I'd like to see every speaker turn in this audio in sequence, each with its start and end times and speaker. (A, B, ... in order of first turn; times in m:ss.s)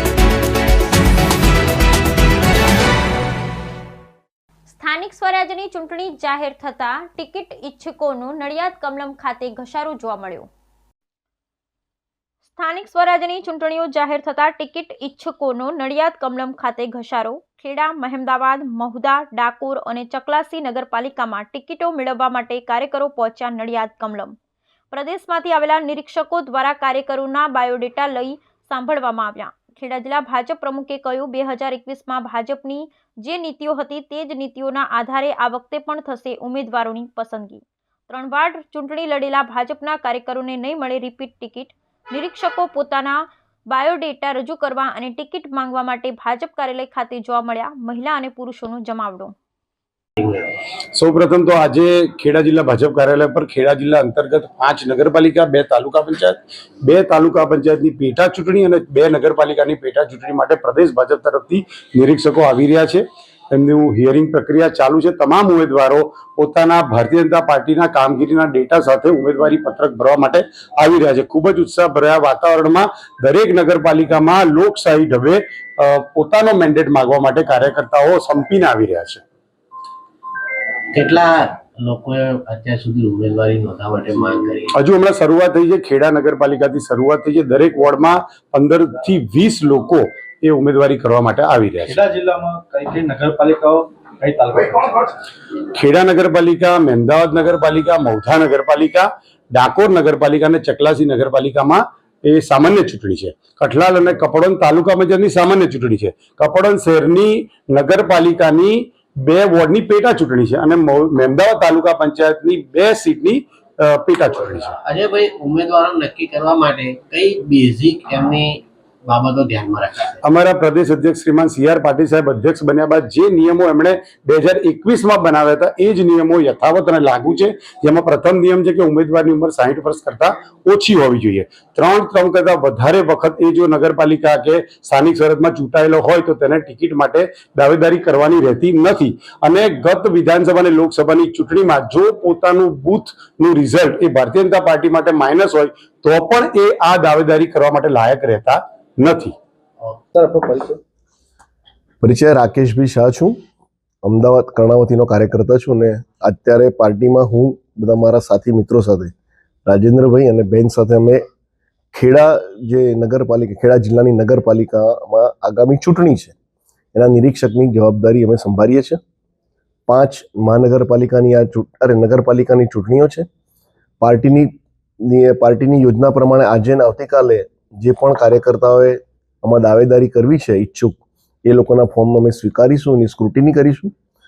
0:04.7-0:10.5 A
0:12.4-0:24.3 A
0:24.9-0:49.3 A
0:50.2-0:50.4 B
0:50.9-1:19.2 C
1:20.9-1:24.7 B
1:24.8-1:32.0 C
1:31.8-1:35.1 D
1:35.7-1:54.8 C
1:54.8-2:00.2 B
2:00.2-2:29.3 C
2:30.1-2:30.8 D
2:32.0-2:33.4 E
2:34.0-2:39.1 E
2:39.7-2:41.2 E
2:41.9-2:46.3 E
2:46.9-2:49.0 E
2:49.9-2:53.3 E
2:54.0-2:54.5 E
2:55.0-3:03.9 E